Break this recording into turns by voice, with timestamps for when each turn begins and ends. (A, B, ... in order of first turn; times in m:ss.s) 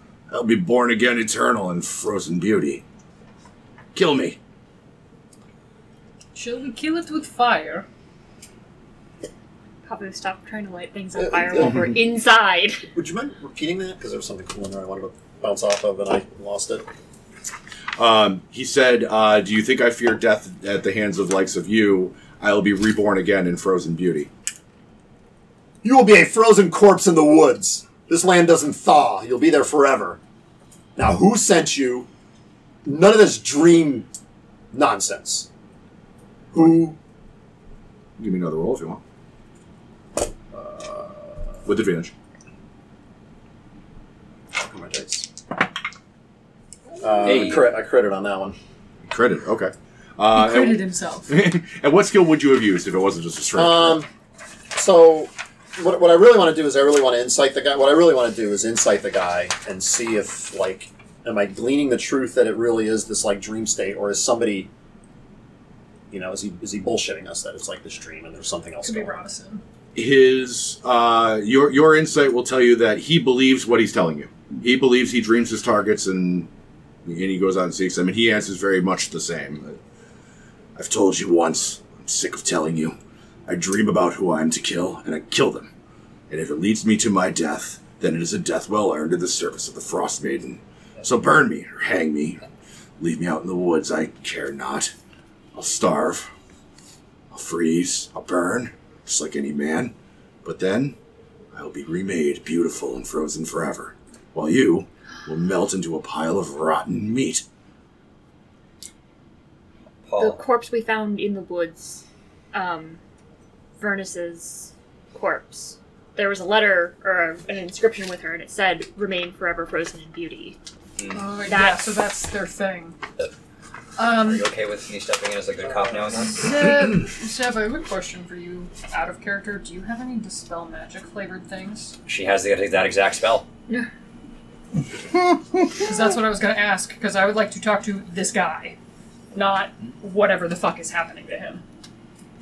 0:00.3-0:02.8 A
0:03.9-0:04.4 A
0:06.3-0:07.8 B
0:09.8-0:12.8 C
0:11.2-0:12.0 D
0:12.9-0:16.8 D
0:18.0-0:24.3 A
0:25.8-0:30.2 D
0:31.0-0:32.1 D
0:32.8-0:34.1 D
0:34.7-0:35.5 D
0:36.5-0:37.0 D
0:38.2-0:39.0 A
0:40.5-0:41.6 D
0:41.6-0:42.1 A
0:44.5-0:45.3 D
0:47.0-0:48.6 D
0:47.3-0:47.5 E
0:49.0-0:54.0 A
0:50.3-0:51.3 B
0:53.5-0:54.1 D
0:54.7-1:04.7 D
1:06.1-1:09.2 D
1:08.8-1:09.6 B
1:09.9-1:16.5 A
1:17.0-1:19.8 A
1:20.8-1:23.0 A
1:23.5-1:25.7 A
1:26.3-1:32.4 A
1:33.0-1:34.9 A
1:35.5-1:36.3 A
1:37.3-1:41.0 A
1:41.5-1:47.4 A
1:50.0-1:50.4 E
1:50.2-1:53.0 C
1:53.8-2:00.6 C
2:01.0-2:01.3 E
2:01.1-2:03.0 B
2:01.5-2:01.9 C
2:04.0-2:04.4 B
2:04.1-2:06.6 E
2:06.2-2:11.9 B
2:12.0-2:13.4 E
2:15.8-2:18.8 B
2:19.3-2:21.6 B